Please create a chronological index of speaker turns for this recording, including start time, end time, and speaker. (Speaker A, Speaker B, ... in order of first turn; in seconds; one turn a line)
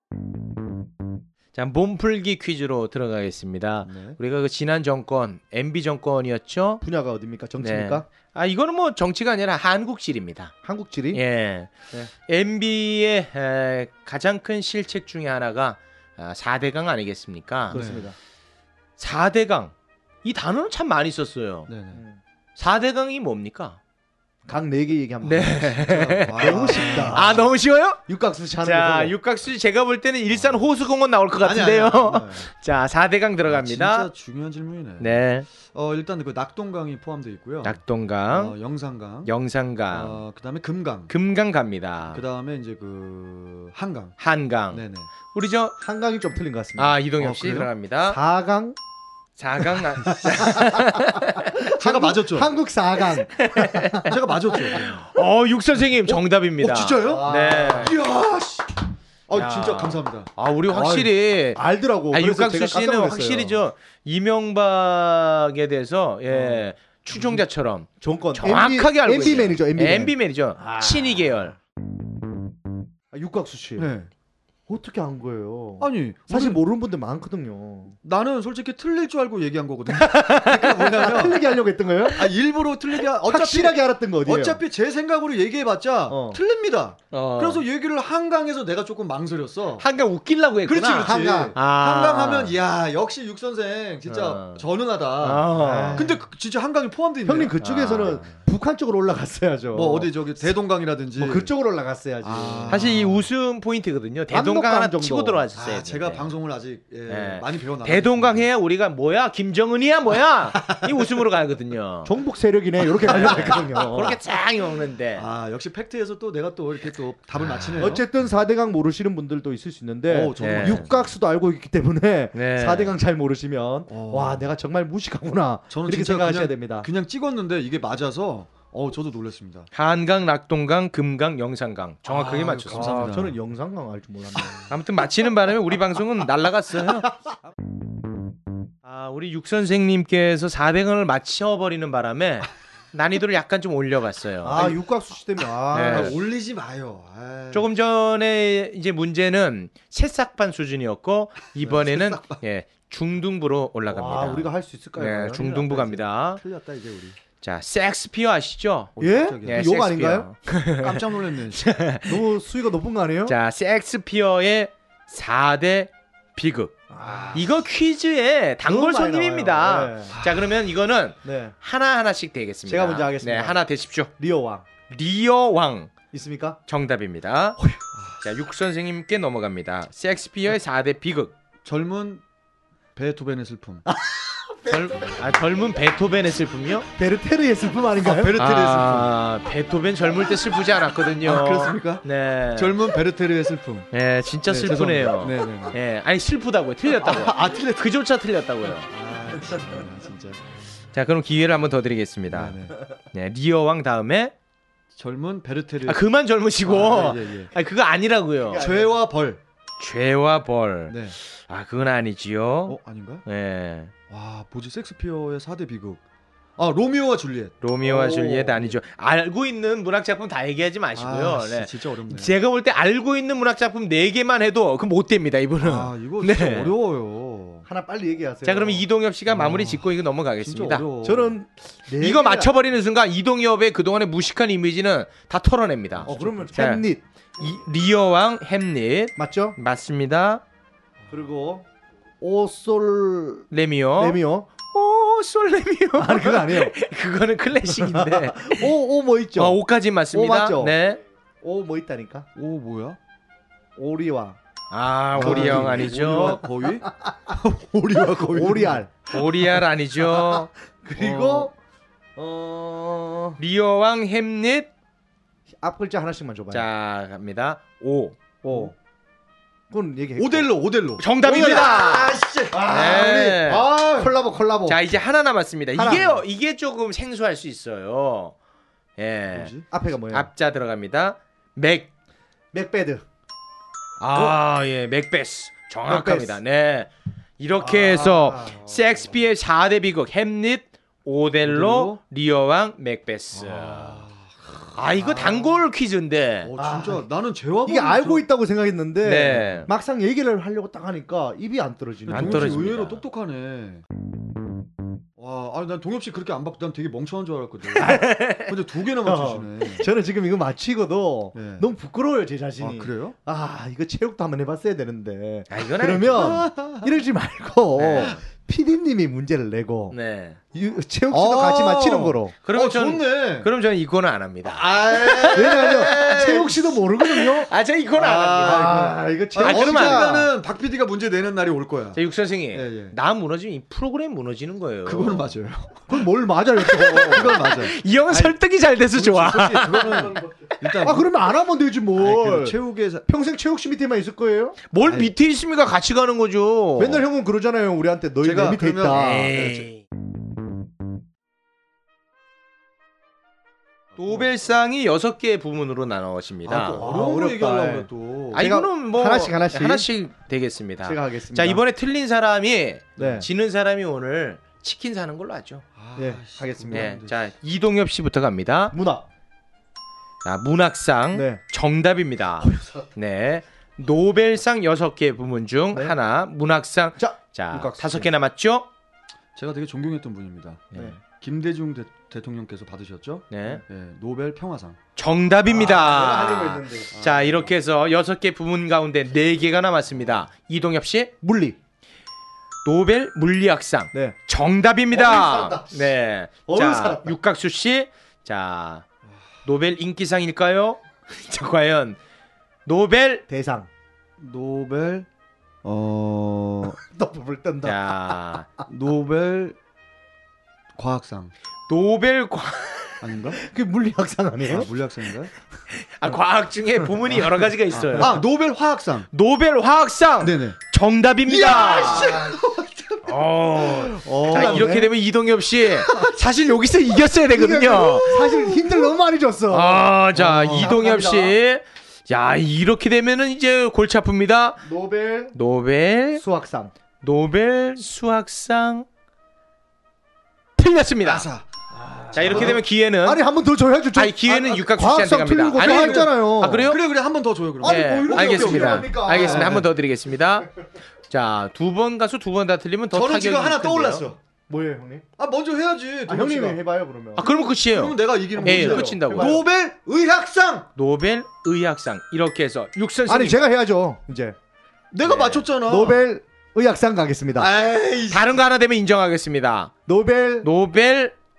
Speaker A: 1.5-6.8
Speaker B: 3.8-4.2
Speaker C: 6.8-8.1
Speaker A: 7.6-10.5
Speaker C: 10.6-11.2
Speaker A: 11.1-17.8
Speaker C: 17.7-18.1
Speaker B: 17.7-18.1
Speaker A: 19.0-21.7
Speaker B: 21.7-22.0
Speaker C: 21.9-22.2
Speaker A: 22.6-23.8
Speaker C: 24.5-25.7
Speaker A: 25.2-28.0
Speaker B: 25.7-27.5
Speaker C: 26.4-27.3
Speaker C: 28.1-29.1
Speaker A: 28.6-34.1
Speaker B: 31.4-32.5
Speaker B: 33.5-39.3
Speaker A: 35.0-35.5
Speaker A: 37.6-38.5
Speaker A: 39.2-40.2
Speaker B: 39.9-41.1
Speaker A: 41.1-42.2
Speaker B: 42.1-44.1
Speaker A: 44.2-45.8
Speaker B: 44.7-45.1
Speaker C: 45.8-47.0
Speaker A: 46.8-48.2
Speaker B: 47.2-47.7
Speaker C: 48.1-48.8
Speaker A: 49.4-51.4
Speaker C: 50.2-54.5
Speaker B: 51.7-52.5
Speaker A: 53.4-54.1
Speaker B: 54.0-55.0
Speaker A: 54.7-58.0
Speaker B: 56.1-60.3
Speaker C: 57.0-57.9
Speaker A: 59.4-61.6
Speaker C: 60.7-63.6
Speaker A: 62.1-71.5
Speaker B: 67.1-67.4
Speaker C: 68.0-71.3
Speaker C: 73.1-73.9
Speaker B: 73.8-74.1
Speaker C: 74.7-78.0
Speaker B: 75.8-76.6
Speaker B: 78.0-81.6
Speaker C: 80.0-82.3
Speaker B: 82.1-89.8
Speaker C: 83.2-84.6
Speaker C: 86.1-86.4
Speaker A: 87.1-87.6
Speaker A: 89.8-92.5
Speaker B: 90.7-97.6
Speaker C: 91.0-91.5
Speaker A: 94.1-94.6
Speaker A: 95.2-96.0
Speaker C: 95.5-96.2
Speaker C: 97.2-100.1
Speaker A: 97.6-98.3
Speaker B: 99.7-101.5
Speaker C: 101.2-102.8
Speaker B: 102.2-103.2
Speaker A: 102.7-106.3
Speaker C: 104.3-105.5
Speaker B: 105.5-108.5
Speaker A: 107.1-112.1
Speaker C: 112.0-114.2
Speaker A: 113.0-115.2
Speaker B: 113.1-113.6
Speaker B: 115.1-118.0
Speaker C: 117.8-126.9
Speaker B: 120.1-121.1
Speaker A: 120.4-120.9
Speaker A: 122.3-122.9
Speaker B: 123.9-124.5
Speaker B: 125.7-129.7
Speaker A: 129.7-132.9
Speaker B: 132.1-133.4
Speaker C: 132.7-134.7
Speaker A: 134.7-137.1
Speaker A: 138.8-144.8
Speaker C: 144.4-146.1
Speaker B: 145.7-147.7
Speaker A: 145.7-146.1
Speaker A: 147.5-156.4
Speaker B: 151.6-152.4
Speaker C: 153.9-155.6
Speaker B: 155.4-157.2
Speaker A: 157.4-162.3
Speaker B: 158.9-159.7
Speaker C: 159.0-160.3
Speaker B: 160.8-161.7
Speaker C: 162.1-163.3
Speaker A: 163.2-166.8
Speaker C: 166.9-167.5
Speaker A: 167.3-174.1
Speaker C: 168.7-170.2
Speaker B: 170.1-170.4
Speaker C: 171.2-171.5
Speaker C: 172.7-173.6
Speaker C: 174.2-174.7
Speaker A: 174.9-175.9
Speaker C: 176.1-176.6
Speaker A: 176.7-177.6
Speaker B: 177.9-178.2
Speaker A: 178.2-181.3
Speaker B: 181.6-182.2
Speaker B: 182.9-183.8
Speaker C: 183.8-185.1
Speaker A: 184.7-186.9
Speaker C: 187.0-188.3
Speaker B: 188.0-189.1
Speaker A: 188.4-192.9
Speaker B: 191.2-193.9
Speaker A: 193.9-198.9
Speaker B: 194.5-195.8
Speaker B: 197.0-197.9
Speaker B: 198.9-200.4
Speaker A: 200.9-202.6
Speaker B: 202.3-202.8
Speaker A: 203.1-204.3
Speaker B: 204.9-206.1
Speaker A: 205.8-208.7
Speaker B: 206.6-207.5
Speaker C: 208.5-208.9
Speaker B: 208.6-209.4
Speaker A: 209.8-213.9
Speaker B: 210.9-211.2
Speaker B: 212.7-213.2
Speaker B: 214.1-216.0
Speaker B: 216.6-218.8
Speaker A: 217.6-226.7
Speaker B: 220.9-222.3
Speaker B: 225.6-227.7
Speaker C: 227.7-228.8
Speaker A: 228.4-230.8
Speaker B: 229.3-229.8
Speaker B: 230.4-231.3
Speaker C: 231.0-232.5
Speaker A: 232.0-236.8
Speaker B: 236.0-236.6
Speaker C: 236.0-237.0
Speaker A: 237.4-240.4
Speaker C: 239.2-239.6
Speaker C: 241.1-241.6
Speaker C: 242.2-243.5
Speaker A: 243.5-248.7
Speaker C: 244.0-244.5
Speaker C: 246.0-246.7
Speaker C: 247.7-249.6
Speaker A: 249.3-251.0
Speaker C: 250.1-250.8
Speaker C: 251.4-252.3
Speaker B: 252.3-253.0
Speaker C: 253.8-254.4
Speaker A: 254.7-256.4
Speaker C: 255.1-257.4
Speaker B: 255.1-258.9
Speaker C: 257.9-259.1
Speaker A: 259.1-260.5
Speaker C: 260.1-261.5
Speaker B: 261.0-261.5
Speaker C: 262.1-263.4
Speaker A: 263.4-264.7
Speaker C: 265.6-266.7
Speaker A: 266.5-268.2
Speaker C: 268.4-268.7
Speaker C: 269.7-270.5
Speaker B: 270.2-274.1
Speaker A: 271.0-273.7
Speaker C: 271.2-271.7
Speaker C: 272.5-274.8
Speaker A: 274.7-278.3
Speaker C: 275.7-276.2
Speaker A: 279.0-279.5
Speaker B: 279.3-279.6
Speaker C: 279.7-280.3
Speaker A: 280.1-281.9
Speaker C: 282.5-283.0
Speaker A: 284.0-294.0
Speaker C: 285.9-286.4
Speaker C: 287.6-288.6
Speaker B: 291.4-292.0
Speaker B: 293.3-295.4
Speaker A: 294.7-296.5
Speaker B: 296.4-298.2
Speaker C: 296.6-297.0
Speaker C: 297.6-302.7
Speaker A: 299.0-299.7
Speaker B: 302.1-303.8
Speaker A: 302.1-303.0
Speaker B: 305.2-309.9
Speaker C: 307.8-308.1
Speaker A: 307.8-308.5
Speaker C: 309.0-319.9
Speaker B: 311.3-311.7
Speaker B: 312.6-313.1
Speaker A: 315.5-316.4
Speaker B: 316.1-316.9
Speaker A: 317.8-318.2
Speaker A: 319.9-320.4
Speaker C: 320.5-322.3
Speaker B: 321.1-323.5
Speaker A: 322.4-326.4
Speaker B: 324.4-326.8
Speaker C: 325.3-327.5
Speaker A: 327.0-328.9
Speaker B: 327.9-332.9
Speaker C: 328.4-330.3
Speaker A: 329.4-330.2
Speaker A: 331.9-335.3
Speaker B: 334.8-335.8
Speaker C: 335.9-337.4
Speaker A: 336.7-340.1
Speaker B: 336.9-338.3
Speaker B: 338.9-341.1
Speaker C: 340.8-344.6
Speaker B: 341.9-343.0
Speaker A: 344.7-347.0
Speaker B: 344.8-345.1
Speaker C: 346.8-349.3
Speaker B: 348.2-349.7
Speaker A: 348.9-349.8
Speaker A: 353.9-356.8
Speaker B: 356.4-358.5
Speaker C: 356.8-359.9
Speaker A: 358.3-365.6
Speaker C: 360.8-361.6
Speaker C: 363.0-363.2
Speaker B: 363.0-363.3
Speaker B: 365.8-367.2
Speaker C: 366.0-366.9
Speaker A: 366.7-368.7
Speaker C: 368.7-369.1
Speaker A: 370.2-378.7
Speaker C: 371.1-371.4
Speaker C: 372.4-372.8
Speaker C: 377.0-378.1
Speaker B: 379.3-384.8
Speaker A: 383.3-383.6
Speaker A: 384.9-391.1
Speaker C: 385.5-386.9
Speaker B: 386.9-387.5
Speaker C: 391.2-391.6
Speaker A: 392.6-398.8
Speaker C: 394.9-395.8
Speaker C: 396.5-397.1
Speaker A: 399.4-402.0
Speaker A: 402.6-403.2
Speaker C: 403.3-403.7
Speaker B: 404.2-405.1
Speaker B: 405.6-406.8
Speaker C: 406.8-408.1
Speaker A: 407.6-408.5
Speaker B: 408.7-409.6
Speaker B: 410.8-411.3
Speaker A: 411.7-413.0
Speaker B: 413.0-413.4
Speaker C: 413.4-414.7
Speaker B: 414.4-415.3
Speaker A: 415.8-418.2
Speaker B: 417.7-419.1
Speaker A: 419.1-422.2
Speaker B: 420.2-420.6
Speaker B: 421.3-423.0
Speaker C: 421.6-422.3
Speaker A: 423.0-428.5
Speaker B: 423.6-424.8
Speaker C: 424.1-424.9
Speaker C: 427.3-431.3
Speaker A: 429.5-434.6
Speaker B: 430.1-430.7
Speaker C: 434.6-435.3
Speaker A: 435.3-436.2
Speaker C: 436.2-436.7
Speaker A: 437.0-438.9
Speaker A: 440.6-441.3
Speaker B: 441.0-441.5
Speaker C: 441.8-446.7
Speaker A: 442.1-443.2
Speaker B: 442.2-442.6
Speaker A: 443.9-446.8
Speaker B: 445.6-449.7
Speaker C: 447.6-449.6
Speaker A: 447.6-450.5
Speaker A: 451.1-454.1
Speaker B: 452.9-454.2
Speaker C: 454.5-455.0
Speaker B: 455.2-456.6
Speaker C: 456.1-457.3
Speaker A: 457.1-459.4
Speaker B: 457.2-460.7
Speaker C: 458.4-459.4
Speaker A: 460.8-463.4
Speaker C: 463.1-464.4
Speaker B: 464.9-466.0
Speaker A: 465.1-465.4
Speaker C: 465.6-467.5
Speaker B: 467.4-468.4
Speaker A: 468.1-469.7
Speaker C: 469.9-470.5
Speaker A: 470.4-471.1